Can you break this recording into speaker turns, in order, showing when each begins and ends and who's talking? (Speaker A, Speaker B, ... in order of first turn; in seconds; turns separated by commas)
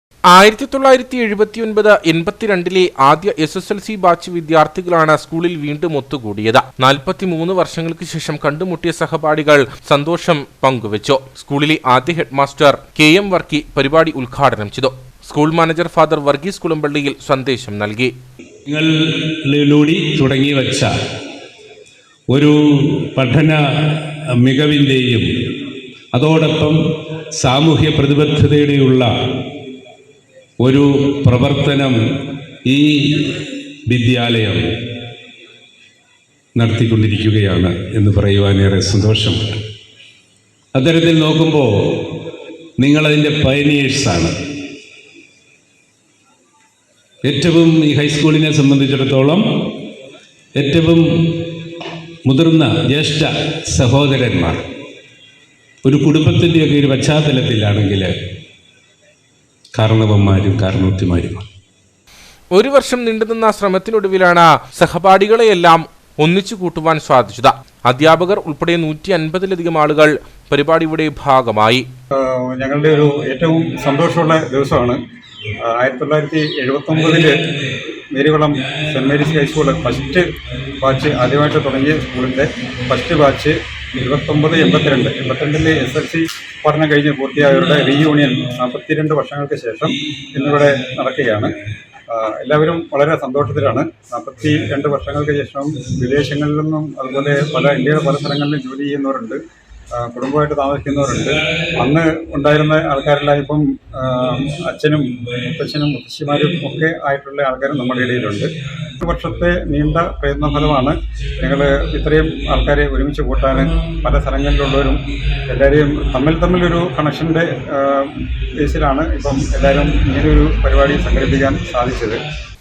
Speaker A: 0.3-18.1, Speaker B: 18.7-20.9, Speaker B: 22.3-25.3, Speaker B: 26.1-26.8, Speaker B: 27.4-29.1, Speaker B: 30.6-32.0, Speaker B: 32.7-33.3, Speaker B: 33.9-34.6, Speaker B: 36.6-39.6, Speaker B: 40.8-42.0, Speaker B: 42.8-44.3, Speaker B: 47.2-49.6, Speaker B: 50.6-51.5, Speaker B: 52.3-54.6, Speaker B: 55.9-58.1, Speaker B: 59.8-61.5, Speaker A: 62.5-71.9, Speaker C: 72.2-75.0, Speaker B: 73.7-74.4, Speaker C: 75.7-77.4, Speaker B: 76.9-77.8, Speaker C: 78.1-91.6, Speaker B: 78.5-82.1, Speaker B: 87.4-88.5, Speaker B: 89.9-91.5, Speaker C: 92.1-99.4, Speaker B: 95.8-96.3, Speaker B: 97.1-98.2, Speaker C: 99.9-122.2, Speaker B: 101.0-101.8, Speaker B: 104.2-104.6, Speaker B: 105.1-105.5, Speaker B: 106.4-106.8, Speaker B: 107.9-112.7, Speaker B: 113.3-117.5, Speaker B: 119.3-122.1